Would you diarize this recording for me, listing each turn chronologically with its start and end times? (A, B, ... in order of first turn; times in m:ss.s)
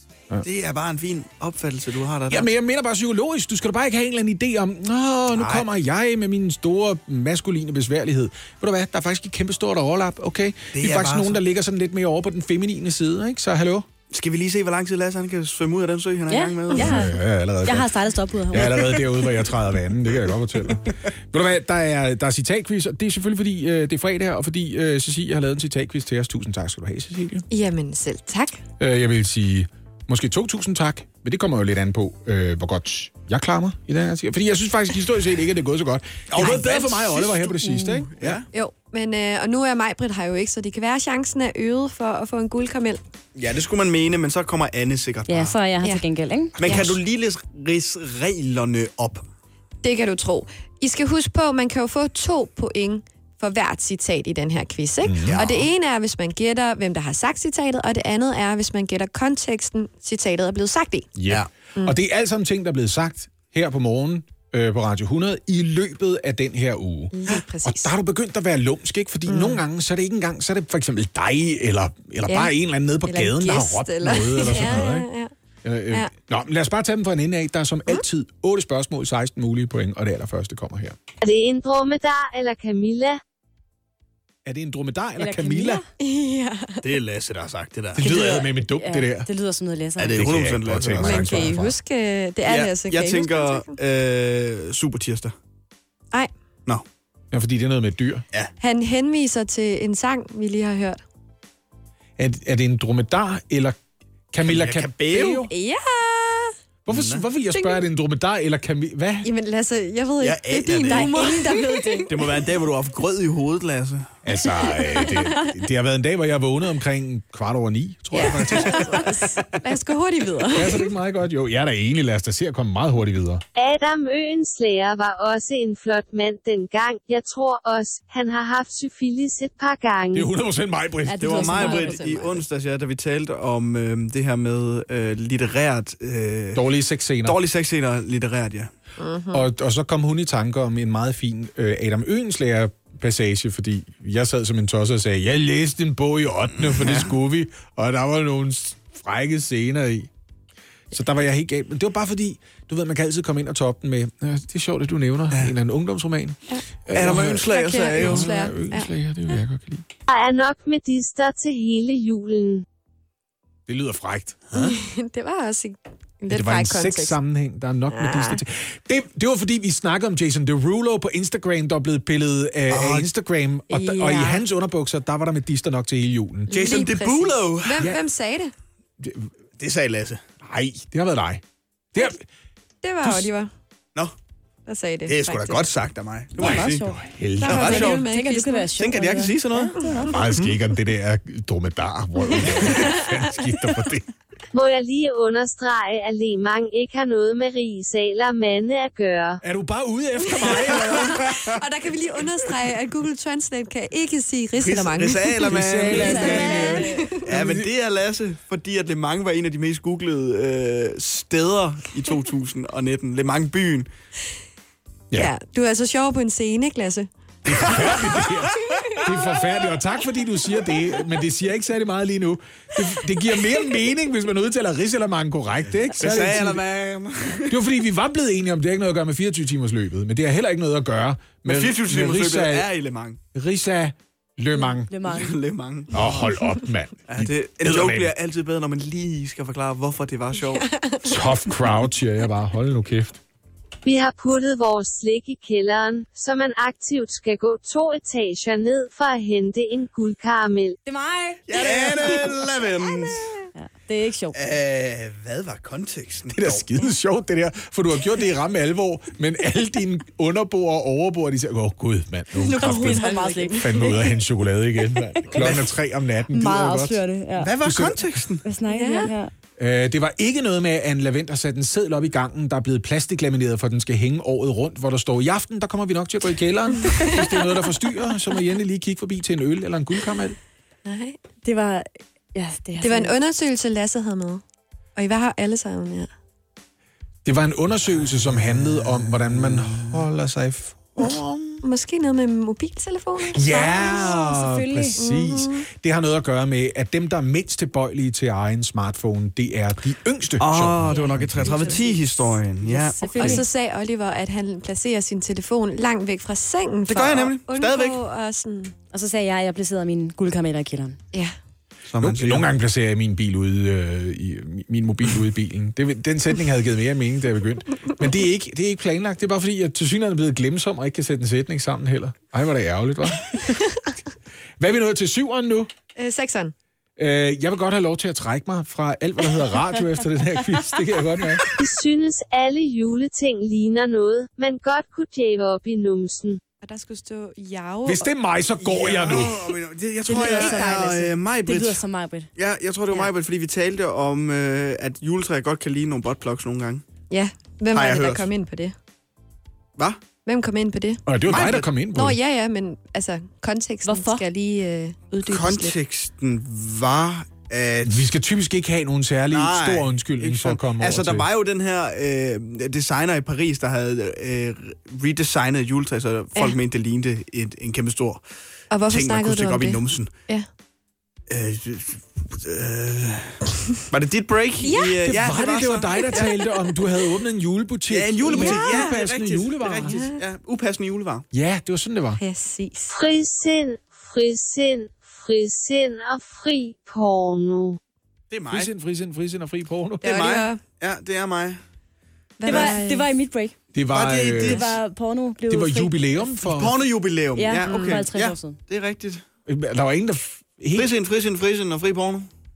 0:00.4-0:02.5 A
0:02.3-0:13.9 B
0:05.3-0:05.6 A
0:10.7-0:11.4 A
0:14.1-0:17.0 A
0:16.3-0:17.1 C
0:16.8-0:17.9 B
0:17.6-0:19.0 C
0:18.5-0:27.4 B
0:27.5-0:28.6 D
0:28.8-0:38.4 B
0:36.3-0:38.5 A
0:38.5-0:43.0 D
0:43.4-0:45.6 A
0:45.3-0:46.6 C
0:46.6-0:49.2 A
0:46.6-0:46.9 B
0:46.6-0:47.0 D
0:49.8-1:01.1 D
0:55.0-0:55.5 B
0:55.3-0:55.7 A
1:01.2-1:15.0 B
1:07.1-1:07.9 D
1:09.3-1:09.6 D
1:12.2-1:15.3 D
1:15.6-1:21.0 B
1:21.2-1:23.2 E
1:24.4-1:25.8 B
1:25.2-1:25.8 C
1:26.0-1:26.8 D
1:26.8-1:28.4 A
1:28.0-1:29.3 B
1:28.0-1:30.2 C
1:28.1-1:28.4 D
1:30.0-1:31.5 A
1:30.1-1:31.7 B
1:31.0-1:33.8 D
1:32.4-1:35.3 A
1:37.3-1:38.2 B
1:38.6-1:41.0 D
1:42.2-1:43.8 B
1:44.3-1:45.5 B
1:44.4-1:45.5 A
1:45.5-1:46.5 D
1:46.8-1:49.3 B
1:46.9-1:47.2 A
1:47.5-1:47.8 D
1:49.2-1:52.3 D
1:50.2-1:51.2 A
1:50.9-1:52.1 C
1:52.1-1:54.1 A
1:54.2-1:59.4 B
1:54.4-1:55.6 D
1:58.1-2:00.9 D
2:00.5-2:03.4 B
2:03.6-2:10.3 E
2:10.1-2:11.9 B
2:11.1-2:12.4 D
2:11.2-2:16.6 A
2:11.3-2:12.0 C
2:16.5-2:17.4 B
2:17.2-2:18.7 A
2:19.0-2:19.5 D
2:19.3-2:30.1 B
2:26.6-2:27.1 A
2:30.9-2:39.8 B
2:36.9-2:38.3 A
2:37.3-2:39.4 D
2:40.1-2:42.6 E
2:43.7-2:44.7 B
2:44.6-2:47.2 D
2:46.3-2:56.6 B
2:47.9-2:48.4 D
2:52.7-2:53.1 A
2:53.7-2:54.4 D
2:56.5-2:58.5 D
2:56.5-2:57.9 A
2:59.0-2:59.3 B
2:59.6-3:00.2 A
3:00.4-3:01.4 B
3:01.9-3:02.2 B
3:02.8-3:03.5 D
3:03.0-3:03.3 B
3:04.6-3:05.7 D
3:05.0-3:06.8 A
3:06.4-3:08.0 B
3:06.4-3:07.0 C
3:07.4-3:08.9 D
3:07.4-3:08.0 A
3:07.5-3:10.0 C
3:08.8-3:09.8 A
3:09.7-3:10.1 D
3:10.1-3:14.1 B
3:12.5-3:13.1 D
3:14.5-3:19.4 E
3:19.4-3:21.6 B
3:20.2-3:27.2 D
3:24.6-3:26.6 A
3:25.4-3:27.7 B
3:25.9-3:27.0 C
3:27.2-3:33.9 A
3:35.1-3:37.1 D
3:37.4-3:46.6 B
3:37.6-3:38.4 A
3:45.9-3:47.6 A
3:47.5-3:52.7 B
3:51.4-3:53.2 A
3:53.3-3:54.9 B
3:54.9-3:55.3 C
3:55.1-3:56.1 A
3:55.9-3:58.1 B
3:57.1-4:00.6 A
4:00.3-4:01.5 D
4:01.0-4:03.2 B
4:03.8-4:10.8 E
4:10.8-4:12.1 C
4:11.5-4:13.3 A
4:13.5-4:14.4 C
4:14.3-4:16.6 A
4:16.3-4:23.0 B
4:22.4-4:24.2 D
4:22.5-4:24.0 C
4:23.6-4:27.0 B
4:25.3-4:25.7 A
4:26.3-4:27.5 C
4:27.4-4:28.4 A
4:27.6-4:28.2 B
4:28.4-4:29.3 C
4:28.7-4:29.1 D
4:29.6-4:40.4 B
4:36.8-4:37.3 D
4:40.8-4:41.2 D
4:41.4-4:43.1 C
4:42.8-4:44.4 D
4:45.0-4:46.1 D
4:47.2-4:51.6 B
4:48.6-4:50.0 A
4:51.6-4:54.2 D
4:53.3-5:01.7 B
4:53.5-4:55.0 C
4:55.0-4:55.6 D
5:00.4-5:03.4 A
5:00.8-5:08.7 D
5:00.9-5:01.8 C
5:03.0-5:03.4 C
5:06.9-5:08.0 A
5:08.9-5:11.0 C
5:11.9-5:12.5 A
5:12.0-5:23.6 B
5:24.6-5:25.7 B
5:25.9-5:26.5 D
5:27.0-5:31.4 B
5:31.6-5:36.4 E
5:36.6-5:38.1 D
5:37.8-5:39.4 B
5:38.6-5:41.8 A
5:40.1-5:42.3 C
5:40.2-5:40.8 D
5:42.4-5:46.8 A
5:47.1-5:48.7 D
5:47.7-5:48.3 A
5:50.2-5:51.0 D
5:51.0-5:52.2 B
5:51.3-5:51.7 A
5:51.8-5:55.8 D
5:53.8-5:54.2 C
5:55.2-5:58.1 A
5:57.8-6:01.3 B
5:59.3-6:08.2 A
6:08.7-6:10.5 D
6:08.8-6:10.1 A
6:11.3-6:13.4 A
6:13.9-6:16.3 A
6:14.6-6:15.1 D
6:15.0-6:20.0 B
6:17.9-6:21.2 A
6:18.3-6:19.0 D
6:19.8-6:20.2 D
6:21.3-6:22.2 B
6:22.2-6:22.9 D
6:22.9-6:27.8 E
6:28.3-6:28.7 A
6:28.5-6:30.1 B
6:30.0-6:30.6 D
6:30.0-6:31.6 A
6:32.4-6:33.1 D
6:32.4-6:33.5 C
6:33.7-6:34.7 B
6:33.9-6:34.8 A
6:34.4-6:36.3 C
6:35.5-6:36.7 B
6:36.4-6:39.2 A
6:37.4-6:38.6 C
6:37.6-6:38.1 D
6:39.5-6:40.9 B
6:40.7-6:42.3 A